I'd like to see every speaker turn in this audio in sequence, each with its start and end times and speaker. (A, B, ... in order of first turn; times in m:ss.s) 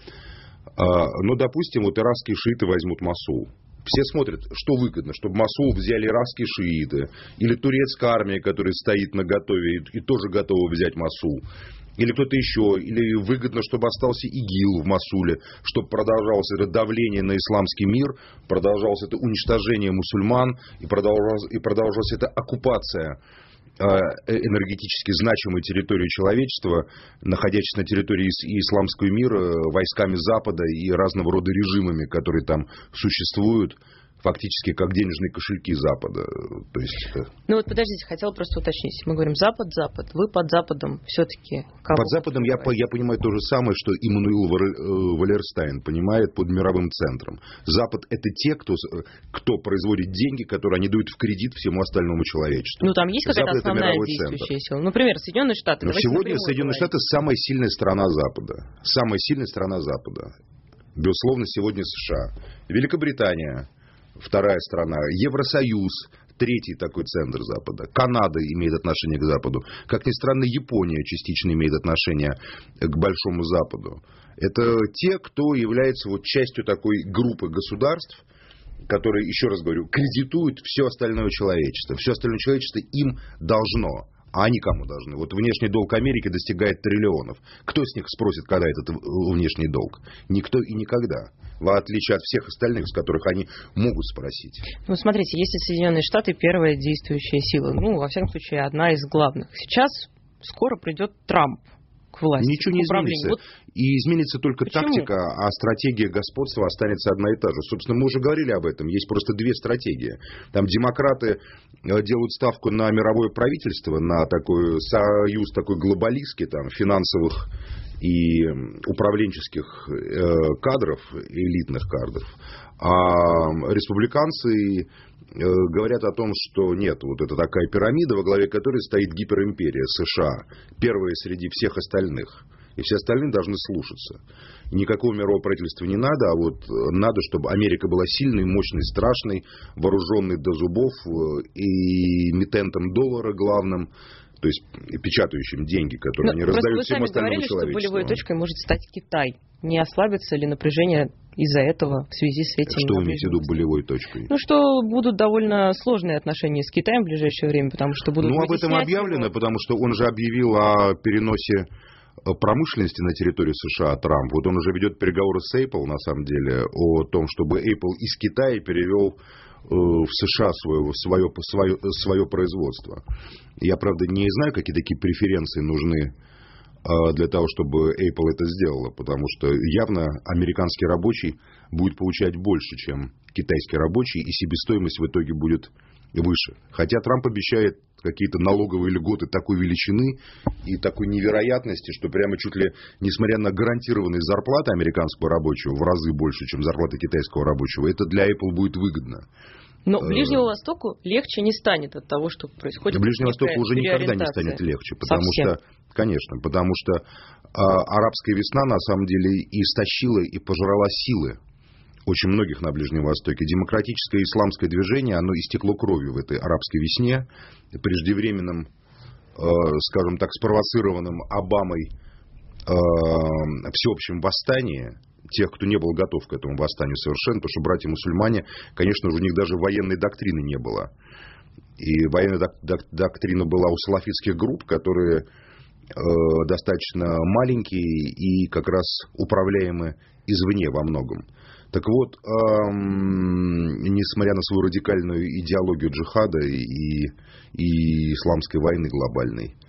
0:00.8-0:11.4 A
0:12.0-0:23.2 A
0:23.8-0:37.3 A
0:37.5-0:42.7 B
0:41.9-0:54.5 A
0:52.8-0:56.9 B
0:55.8-1:00.3 A
1:01.0-1:18.2 A
1:18.9-1:34.7 A
1:34.8-1:43.4 B
1:42.4-2:14.2 A
1:44.7-1:45.1 B
2:14.7-2:28.2 A
2:26.2-2:33.6 B
2:32.7-2:34.3 A
2:34.3-2:39.3 B
2:38.2-2:41.7 A
2:42.2-2:53.0 A
2:53.6-2:56.1 A
2:56.8-3:19.3 A
3:19.9-3:25.5 B
3:20.0-3:20.4 A
3:22.9-3:31.4 A
3:32.1-3:38.7 A
3:39.4-3:41.9 A
3:42.7-3:50.9 A
3:51.8-3:55.3 A
3:55.9-4:09.5 A